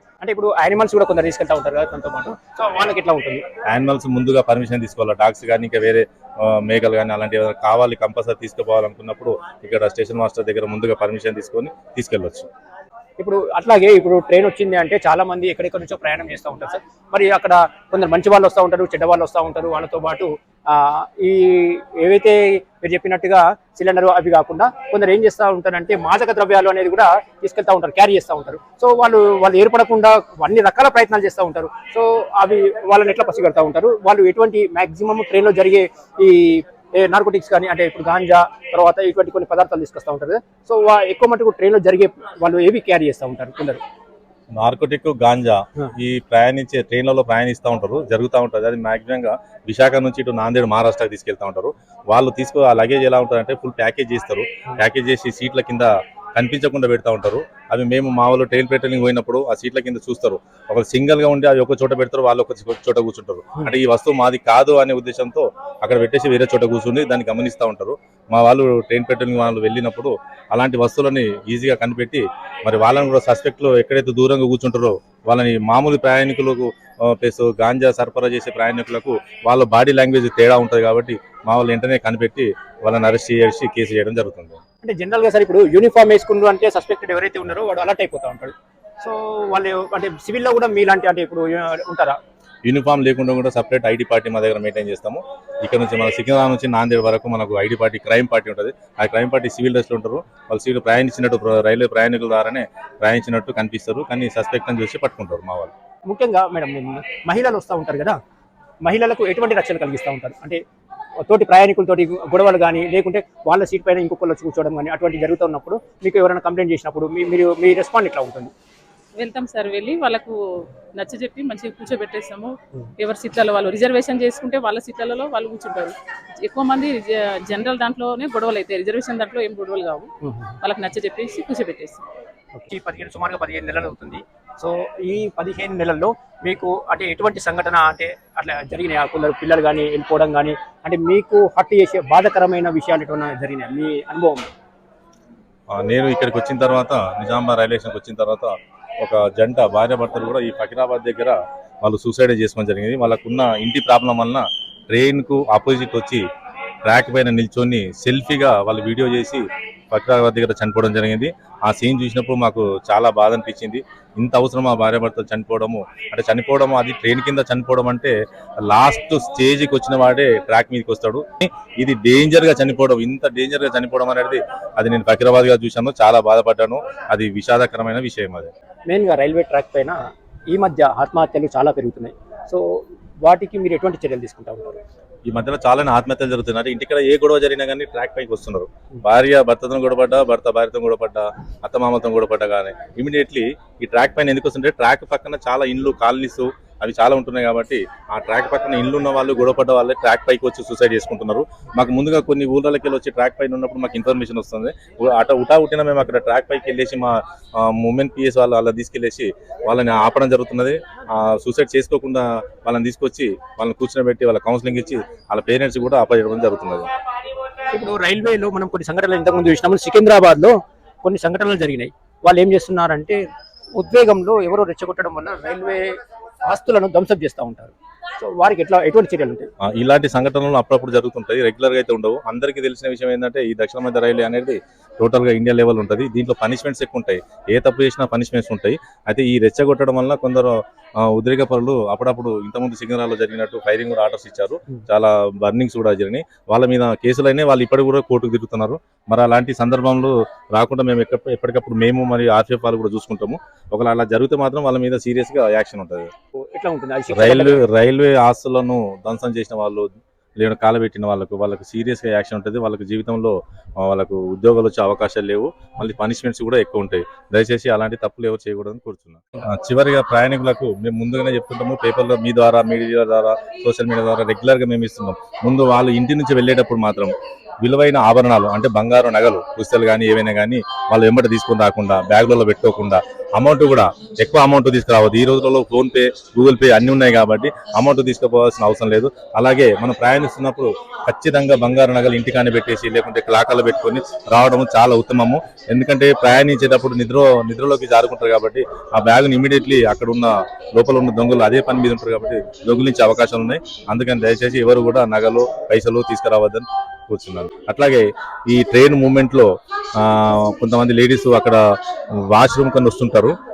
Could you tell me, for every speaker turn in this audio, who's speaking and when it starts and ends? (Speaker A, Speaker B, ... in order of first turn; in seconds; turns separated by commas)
Speaker A: 0.2-3.5, Speaker B: 3.7-12.5, Speaker A: 13.2-43.8, Speaker B: 44.6-84.6, Speaker A: 84.8-92.2, Speaker B: 92.6-105.7, Speaker A: 106.1-108.2, Speaker A: 108.8-110.6, Speaker A: 111.2-118.5, Speaker C: 119.2-120.4, Speaker C: 120.9-130.1, Speaker A: 130.2-130.5, Speaker C: 130.6-132.1, Speaker A: 132.5-144.5, Speaker B: 145.7-156.2, Speaker B: 156.8-178.5, Speaker A: 178.9-184.8, Speaker B: 185.2-216.9, Speaker A: 217.7-223.2, Speaker A: 223.8-229.5, Speaker B: 229.6-256.1, Speaker A: 256.5-257.6, Speaker B: 257.1-311.6, Speaker B: 312.2-313.3